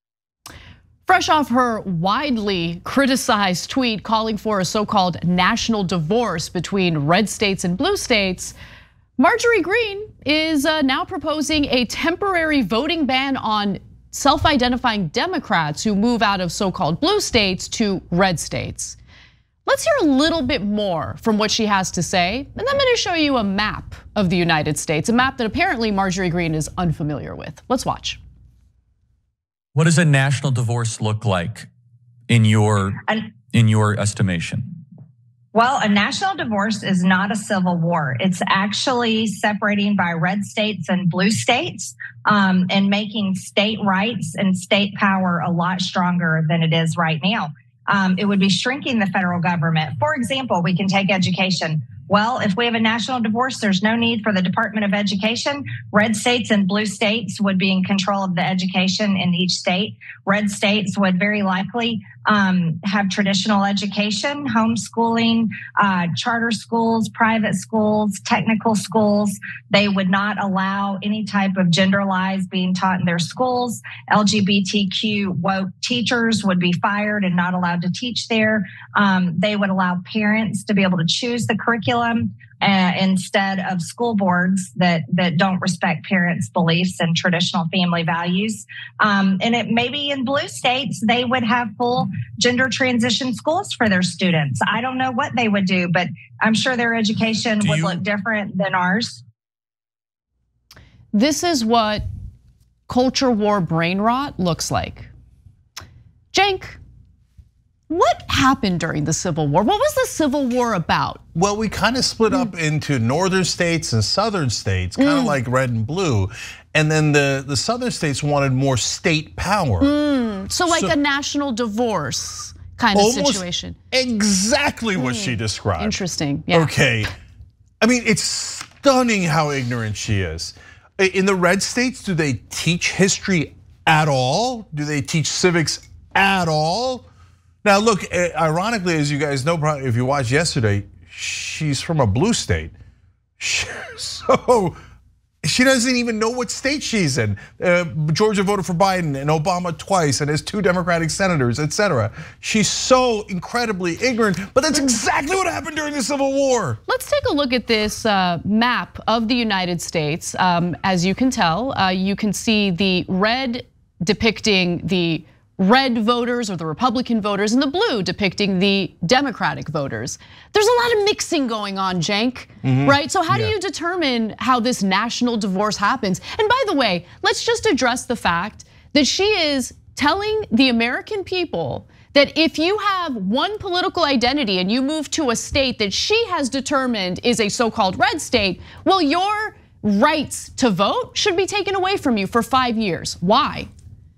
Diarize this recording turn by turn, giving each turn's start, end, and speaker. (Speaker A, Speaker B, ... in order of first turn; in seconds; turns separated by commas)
Speaker A: 1.1-8.6, Speaker A: 9.2-19.0, Speaker A: 19.7-28.2, Speaker B: 29.8-31.7, Speaker B: 32.3-33.0, Speaker C: 33.1-33.3, Speaker B: 33.5-34.7, Speaker C: 35.5-99.2, Speaker B: 97.7-98.0, Speaker A: 101.1-102.0, Speaker A: 102.9-105.1, Speaker A: 106.3-106.8, Speaker A: 107.9-111.2, Speaker D: 111.3-119.9, Speaker A: 115.0-115.4, Speaker A: 119.8-123.8, Speaker D: 120.7-120.9, Speaker D: 122.9-126.0, Speaker A: 125.0-126.7, Speaker D: 126.5-127.1, Speaker D: 127.8-137.1, Speaker D: 137.6-142.7, Speaker D: 143.4-144.8, Speaker D: 145.4-156.8, Speaker A: 156.9-193.7, Speaker D: 172.6-173.5